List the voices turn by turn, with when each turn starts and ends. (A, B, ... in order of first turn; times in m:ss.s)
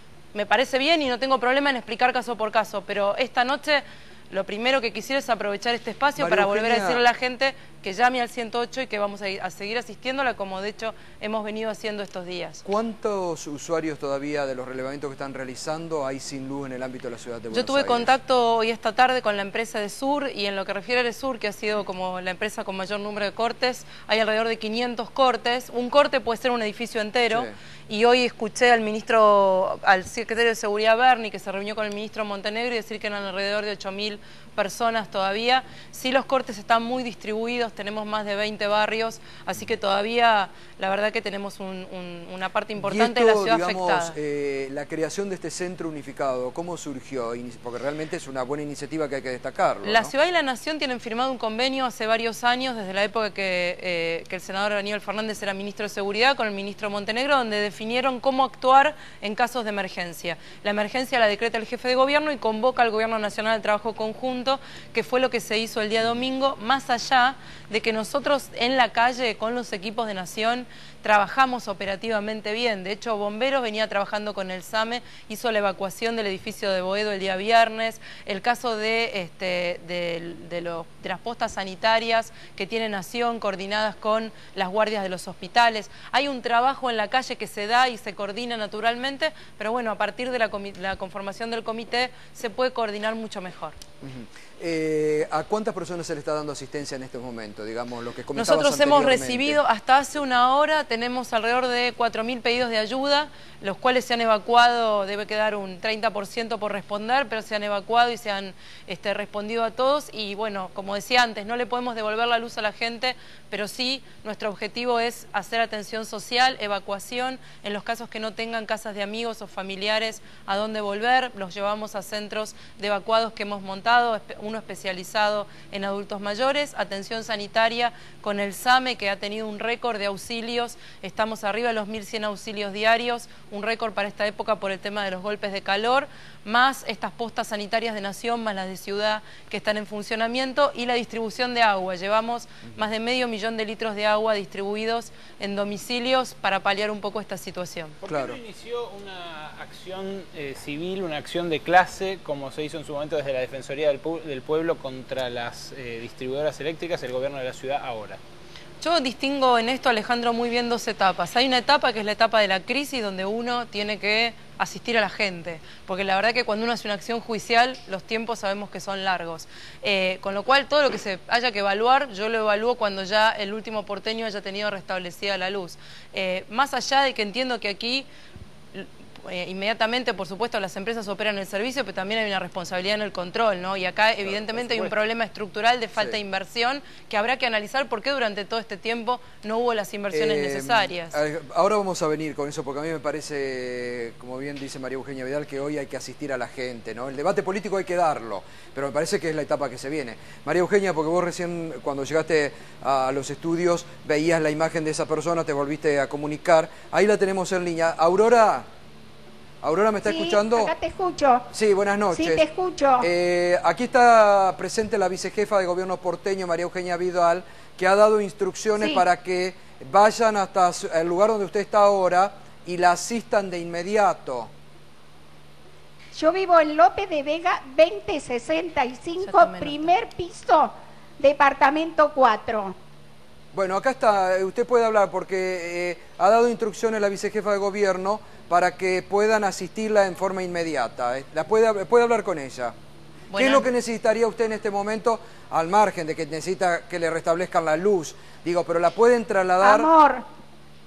0:00.3-0:12.6 A
0:06.2-0:07.0 B
0:12.6-0:18.1 B
0:17.5-0:44.2 A
0:42.8-0:50.1 B
0:49.8-1:33.8 A
1:34.0-1:39.6 B
1:38.4-2:28.0 A
2:28.0-2:38.2 C
2:28.1-2:28.4 B
2:38.8-2:58.1 A
2:58.7-3:11.2 A
3:04.2-3:04.9 B
3:10.1-3:28.7 B
3:29.6-3:30.7 B
3:30.1-3:31.5 D
3:31.5-3:32.4 B
3:32.1-3:33.1 D
3:33.0-3:44.5 B
3:46.1-3:52.8 D
3:49.2-3:49.9 A
3:53.5-4:02.7 B
4:03.3-4:03.7 A
4:03.4-4:09.9 B
4:09.6-4:10.2 D